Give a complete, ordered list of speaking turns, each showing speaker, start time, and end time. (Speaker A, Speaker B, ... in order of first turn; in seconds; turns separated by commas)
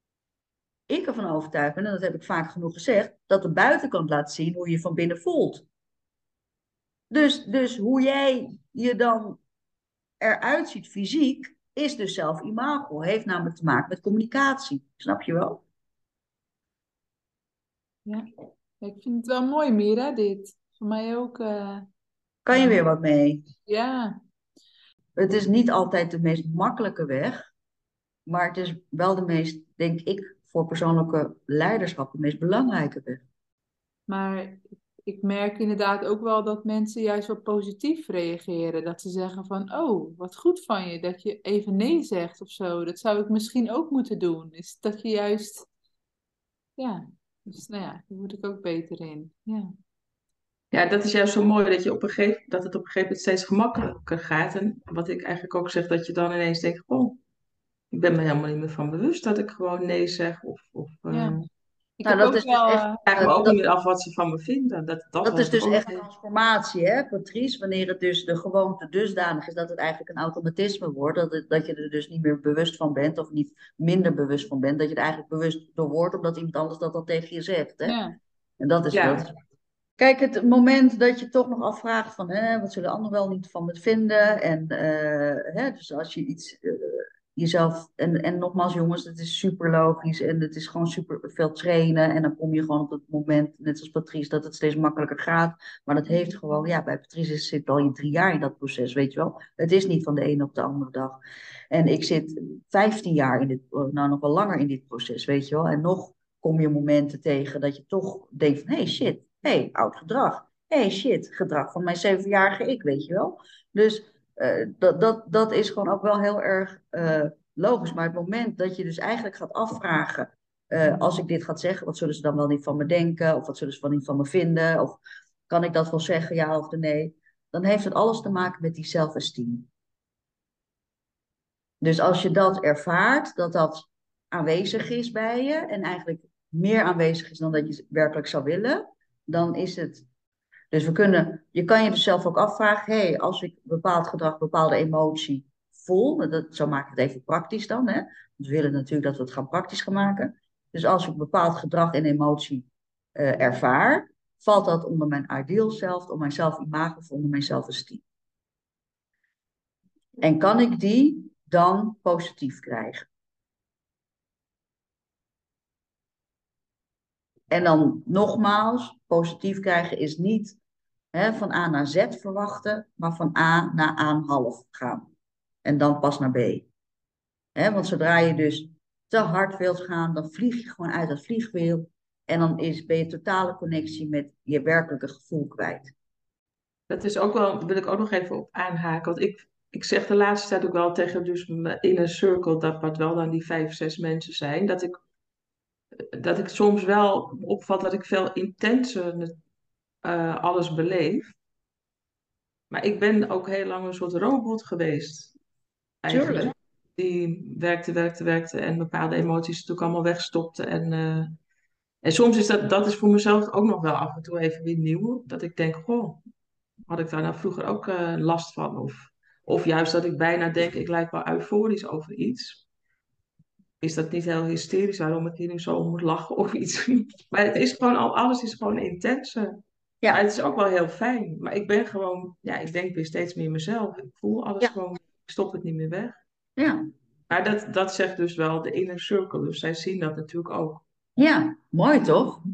Speaker A: 0.9-5.7, Speaker A: 7.1-9.4, Speaker A: 10.2-15.6, Speaker B: 18.8-21.9, Speaker A: 22.4-23.5, Speaker B: 22.6-22.8, Speaker B: 23.7-24.2, Speaker A: 25.2-27.5, Speaker A: 28.3-33.2, Speaker B: 34.1-45.7, Speaker B: 46.8-49.7, Speaker C: 50.7-57.2, Speaker C: 57.9-61.5, Speaker B: 61.1-61.4, Speaker B: 62.0-63.0, Speaker A: 62.0-63.6, Speaker C: 63.1-66.1, Speaker A: 65.2-78.0, Speaker B: 77.8-78.2, Speaker A: 78.6-79.3, Speaker C: 78.9-79.3, Speaker A: 80.0-101.2, Speaker A: 101.7-129.7, Speaker A: 131.8-140.1, Speaker A: 140.7-158.0, Speaker A: 160.2-163.1, Speaker A: 167.5-170.6, Speaker A: 171.1-175.1, Speaker A: 175.7-176.7, Speaker A: 177.6-185.9, Speaker C: 186.9-195.0, Speaker C: 196.0-199.4, Speaker C: 200.0-201.3, Speaker C: 202.7-205.3, Speaker C: 206.0-211.4, Speaker A: 206.1-206.5, Speaker C: 212.0-216.2, Speaker C: 216.9-222.7, Speaker C: 223.8-236.2, Speaker C: 237.3-240.8, Speaker A: 241.2-242.4